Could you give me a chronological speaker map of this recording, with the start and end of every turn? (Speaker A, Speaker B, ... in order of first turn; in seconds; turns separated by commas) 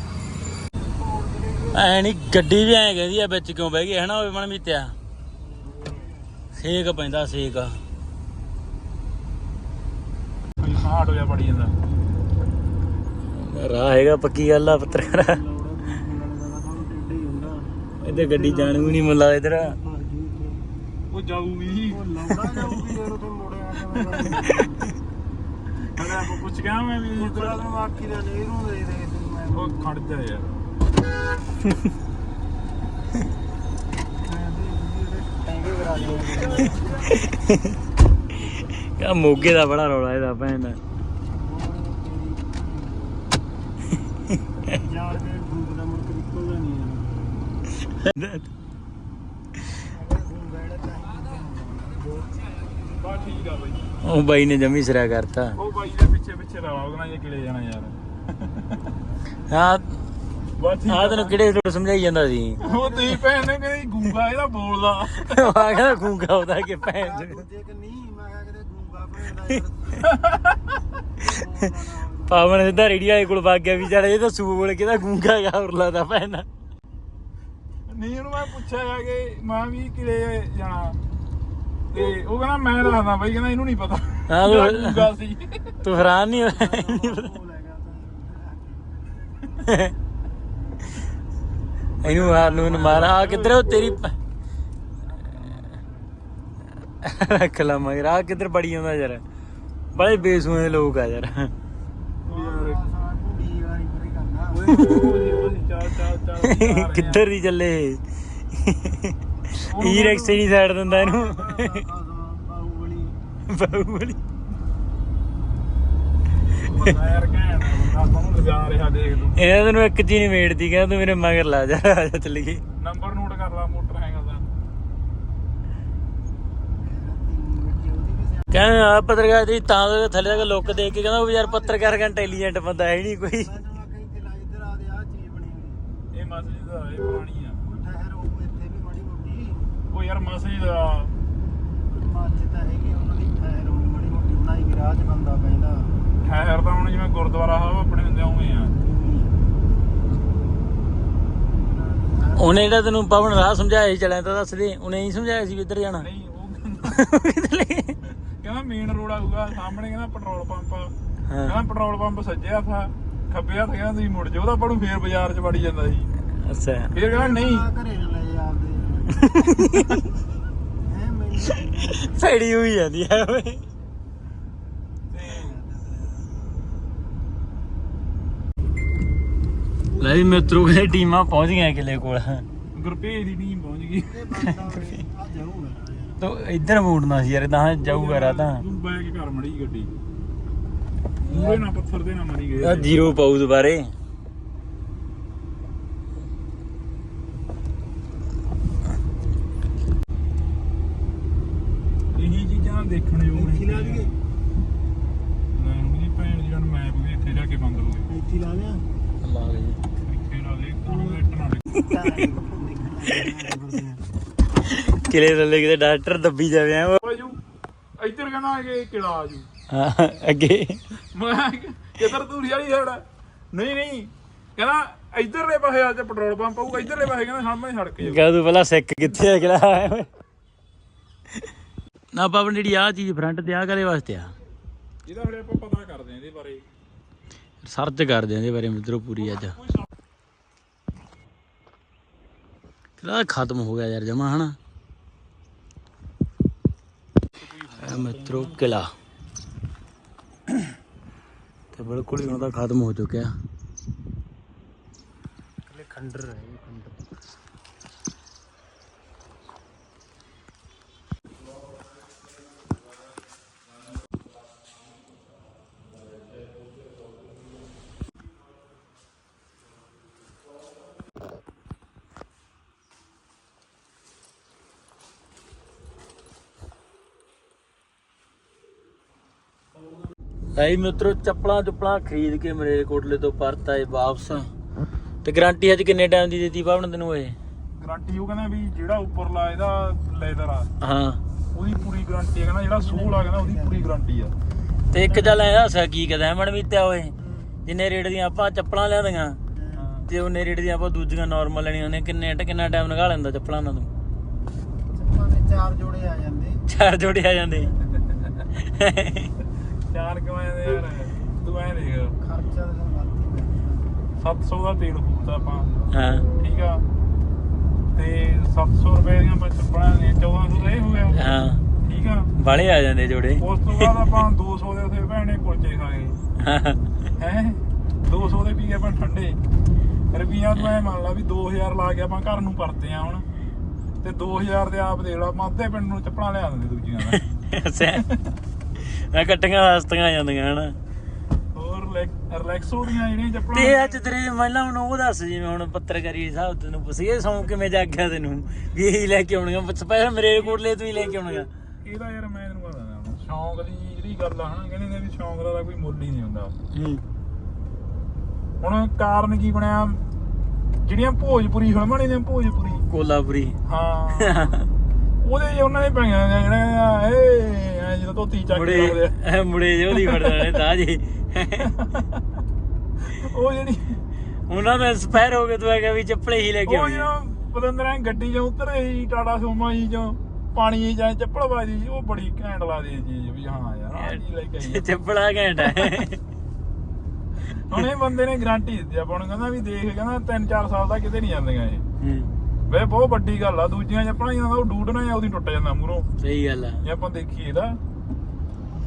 Speaker A: 0.8-1.9, Speaker B: 1.7-4.9, Speaker A: 5.5-6.3, Speaker B: 6.5-7.8, Speaker C: 10.6-11.8, Speaker B: 13.3-15.4, Speaker A: 14.7-20.6, Speaker B: 18.0-19.8, Speaker C: 21.1-22.8, Speaker A: 21.9-24.9, Speaker C: 23.9-24.6, Speaker C: 25.8-27.8, Speaker A: 27.1-30.0, Speaker C: 29.5-30.6, Speaker A: 34.2-37.2, Speaker C: 36.1-36.9, Speaker B: 37.0-37.7, Speaker B: 39.0-40.8, Speaker A: 41.3-43.3, Speaker A: 44.7-47.4, Speaker B: 47.8-48.5, Speaker A: 49.9-52.5, Speaker C: 52.9-53.9, Speaker B: 54.0-55.5, Speaker C: 55.6-58.9, Speaker B: 59.5-60.0, Speaker C: 60.6-61.4, Speaker B: 60.9-62.6, Speaker A: 62.6-63.2, Speaker C: 62.6-65.7, Speaker B: 65.2-67.4, Speaker A: 66.8-70.1, Speaker C: 70.0-70.8, Speaker A: 71.1-72.9, Speaker B: 72.3-76.5, Speaker C: 77.9-81.0, Speaker C: 81.9-85.8, Speaker B: 84.3-85.0, Speaker B: 85.8-87.3, Speaker A: 86.0-89.6, Speaker B: 89.6-89.9, Speaker C: 92.0-93.6, Speaker B: 92.0-94.1, Speaker A: 95.0-96.3, Speaker B: 97.0-99.2, Speaker B: 99.9-101.5, Speaker C: 102.2-102.8, Speaker A: 102.2-105.0, Speaker C: 104.5-107.2, Speaker B: 106.4-111.8, Speaker C: 109.6-110.5, Speaker A: 110.8-113.2, Speaker B: 113.5-114.2, Speaker C: 116.6-119.4, Speaker B: 119.3-122.6, Speaker C: 122.8-124.5, Speaker A: 126.8-128.7, Speaker B: 128.5-133.5, Speaker A: 130.1-132.5, Speaker A: 133.3-135.8, Speaker C: 136.1-137.7, Speaker A: 137.6-139.7, Speaker C: 139.9-141.1, Speaker A: 141.9-145.9, Speaker C: 146.2-148.8, Speaker A: 148.8-149.4, Speaker A: 151.6-152.8, Speaker B: 152.3-156.1, Speaker C: 156.0-157.1, Speaker B: 156.8-157.9, Speaker C: 158.0-160.9, Speaker C: 161.4-166.1, Speaker B: 166.4-166.9, Speaker C: 166.9-167.7, Speaker A: 167.1-170.0, Speaker B: 169.2-170.0, Speaker A: 170.8-172.1, Speaker B: 171.4-173.6, Speaker C: 175.1-175.6, Speaker A: 175.2-176.2, Speaker A: 179.9-180.8, Speaker B: 180.0-182.4, Speaker C: 182.7-184.5, Speaker A: 184.0-186.2, Speaker B: 184.5-184.8, Speaker B: 186.2-188.6, Speaker C: 187.8-189.9, Speaker C: 191.2-193.0, Speaker A: 191.3-191.7, Speaker B: 192.6-193.9, Speaker C: 202.1-204.2, Speaker A: 203.3-204.1, Speaker C: 205.5-208.1, Speaker A: 208.1-208.8, Speaker B: 209.2-209.8, Speaker C: 210.0-211.8, Speaker A: 210.9-211.2, Speaker A: 211.8-214.0, Speaker B: 214.7-217.0, Speaker C: 217.0-217.4, Speaker C: 218.0-219.5, Speaker B: 219.7-220.8, Speaker C: 221.1-228.3, Speaker B: 228.0-230.1, Speaker B: 232.1-234.3, Speaker C: 235.1-236.6, Speaker B: 237.6-239.6, Speaker B: 243.0-244.6, Speaker C: 247.3-248.7, Speaker B: 247.8-248.9, Speaker B: 251.7-253.3, Speaker A: 255.7-257.1, Speaker B: 280.6-284.5, Speaker B: 285.2-287.4, Speaker C: 287.8-290.7, Speaker B: 290.8-291.2, Speaker C: 291.5-294.3, Speaker A: 292.8-293.9, Speaker B: 294.9-297.1, Speaker A: 295.0-295.4, Speaker A: 297.2-297.5, Speaker B: 297.6-299.4, Speaker A: 299.5-299.9, Speaker C: 299.8-300.1, Speaker B: 300.1-303.9, Speaker A: 304.9-306.6, Speaker B: 306.7-307.7, Speaker C: 307.8-308.4, Speaker B: 308.6-309.3, Speaker C: 309.9-312.1, Speaker A: 312.2-313.9, Speaker C: 314.2-315.7, Speaker B: 315.9-316.3, Speaker C: 316.3-316.8, Speaker C: 317.9-321.3, Speaker B: 321.1-321.6, Speaker C: 321.8-322.3, Speaker B: 322.4-324.1, Speaker C: 323.4-326.2, Speaker B: 326.4-326.8, Speaker C: 327.2-329.4, Speaker C: 330.1-333.2, Speaker C: 334.0-337.2, Speaker B: 337.1-338.0, Speaker C: 337.9-338.4, Speaker B: 339.0-340.7, Speaker C: 341.5-344.1, Speaker B: 343.5-351.5, Speaker C: 350.3-350.6, Speaker C: 351.8-356.5, Speaker B: 356.7-357.0, Speaker C: 358.6-360.0, Speaker C: 360.8-362.8, Speaker B: 362.9-363.6, Speaker C: 363.6-364.5, Speaker B: 364.2-364.6, Speaker C: 365.2-369.1, Speaker B: 368.5-371.7, Speaker C: 369.9-370.6, Speaker C: 371.6-372.2, Speaker C: 373.0-374.0, Speaker B: 374.5-377.1, Speaker C: 376.6-384.9, Speaker B: 383.9-386.2, Speaker C: 385.6-386.0, Speaker C: 387.4-391.8, Speaker B: 392.0-392.3, Speaker C: 392.7-396.1, Speaker B: 396.2-396.8, Speaker C: 396.8-397.8